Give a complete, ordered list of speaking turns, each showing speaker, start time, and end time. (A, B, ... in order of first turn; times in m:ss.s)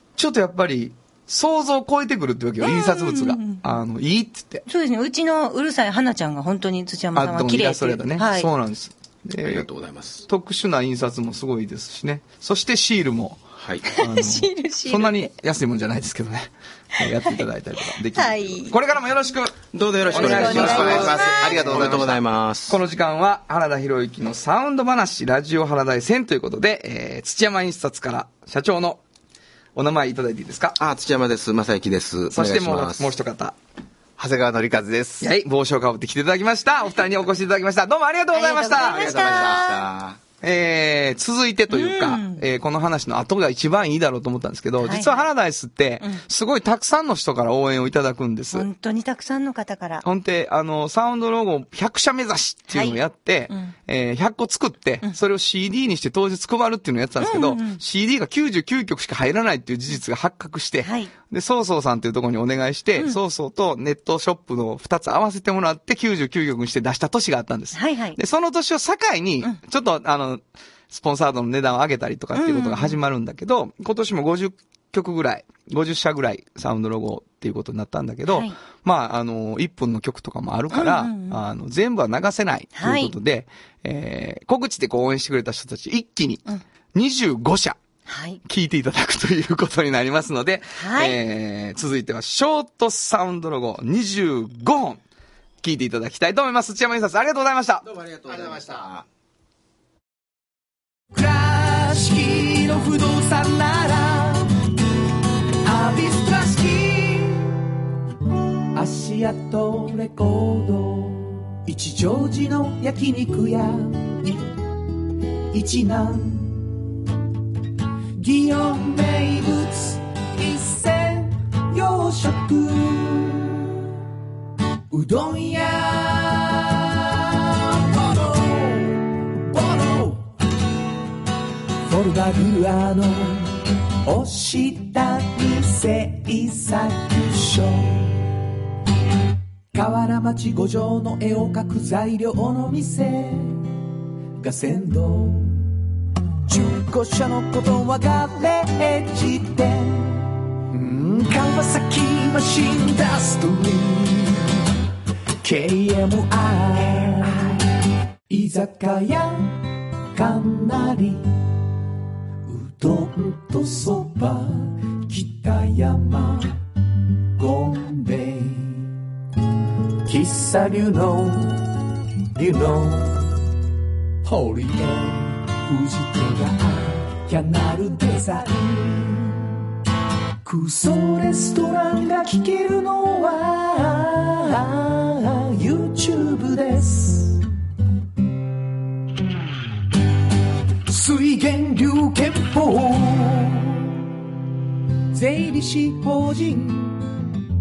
0:00.2-0:04.6 A
0:02.6-0:03.8 B
0:04.7-0:08.5 B
0:07.1-0:09.7 A
0:09.4-0:10.2 C
0:10.2-0:29.0 A
0:13.6-0:13.9 C
0:14.0-0:15.3 B
0:17.0-0:17.4 B
0:18.1-0:18.8 B
0:19.7-0:22.8 C
0:20.1-0:21.5 B
0:20.3-0:22.2 D
0:29.7-0:30.8 A
0:30.8-0:33.1 C
0:32.3-0:33.6 A
0:34.2-0:35.3 D
0:35.2-0:39.6 A
0:38.3-0:39.9 B
0:38.7-0:40.2 C
0:40.4-0:48.6 A
0:41.7-0:42.4 B
0:44.8-0:45.3 B
0:48.5-0:50.0 B
0:50.0-1:26.4 A
0:52.7-0:53.0 B
0:53.5-0:53.7 B
0:57.2-0:57.8 B
1:00.8-1:01.1 B
1:07.7-1:08.2 B
1:12.3-1:13.0 B
1:18.3-1:18.6 B
1:20.7-1:21.4 B
1:22.8-1:23.1 B
1:26.9-1:27.8 A
1:28.1-1:28.4 B
1:28.4-1:35.0 A
1:30.8-1:31.2 B
1:35.6-1:37.8 A
1:37.8-1:39.0 C
1:41.1-1:44.5 E
1:45.6-1:47.6 E
1:48.7-1:54.4 E
1:55.5-1:56.8 E
1:58.2-2:03.7 E
2:04.9-2:10.2 E
2:11.9-2:18.2 E
2:19.7-2:23.7 E
2:24.4-2:25.7 E
2:26.5-2:34.6 E
2:35.4-2:37.6 E
2:38.3-2:39.6 E
2:40.1-2:41.3 E
2:42.4-2:46.5 E
2:47.4-2:48.9 E
2:50.0-2:51.7 E
2:52.3-2:53.3 E
2:54.2-2:59.5 E
3:00.4-3:07.4 E
3:10.9-3:13.9 E
3:15.1-3:17.0 E